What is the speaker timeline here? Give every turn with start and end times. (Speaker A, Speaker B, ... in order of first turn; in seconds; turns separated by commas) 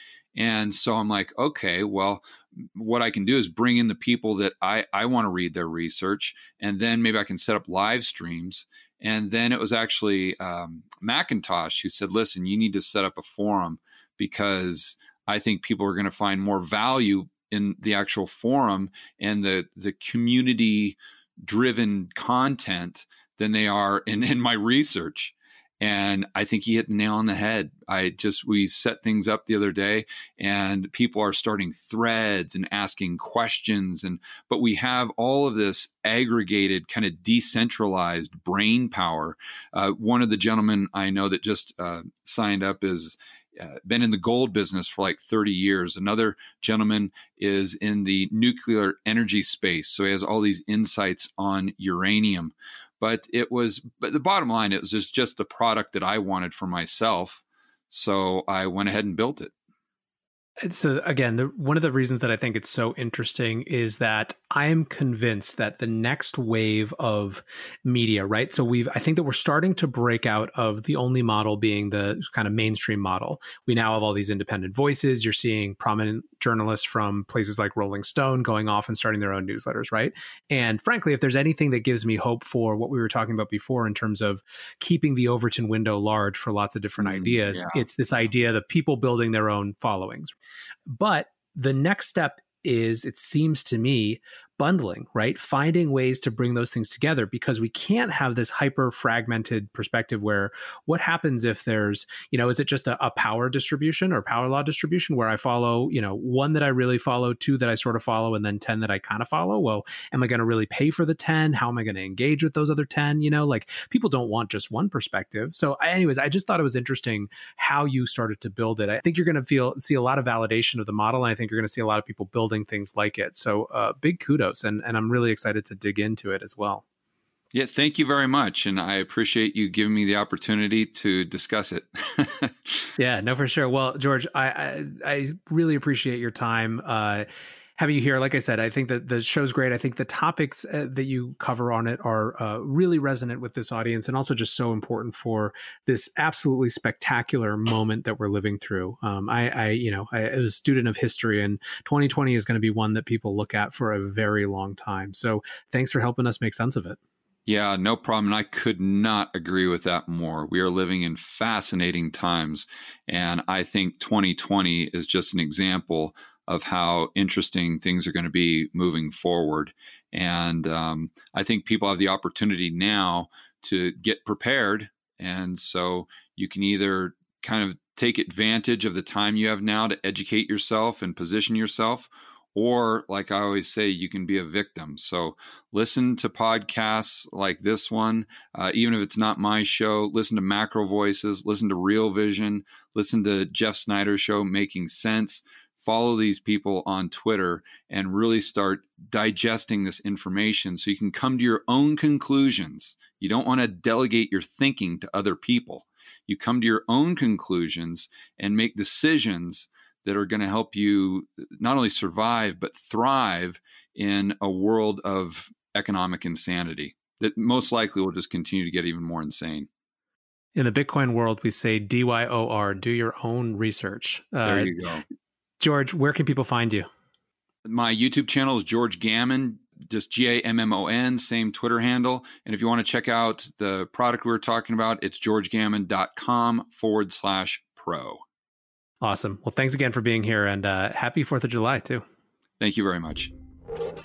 Speaker A: 0.3-59.5, Speaker B: 60.6-90.3, Speaker A: 87.0-87.8, Speaker B: 90.9-126.8, Speaker A: 127.5-132.9, Speaker B: 133.0-157.0, Speaker A: 157.5-219.7, Speaker B: 220.5-224.7, Speaker A: 224.4-225.0, Speaker B: 225.6-226.9, Speaker A: 227.6-238.2, Speaker B: 239.0-242.0, Speaker A: 242.6-243.3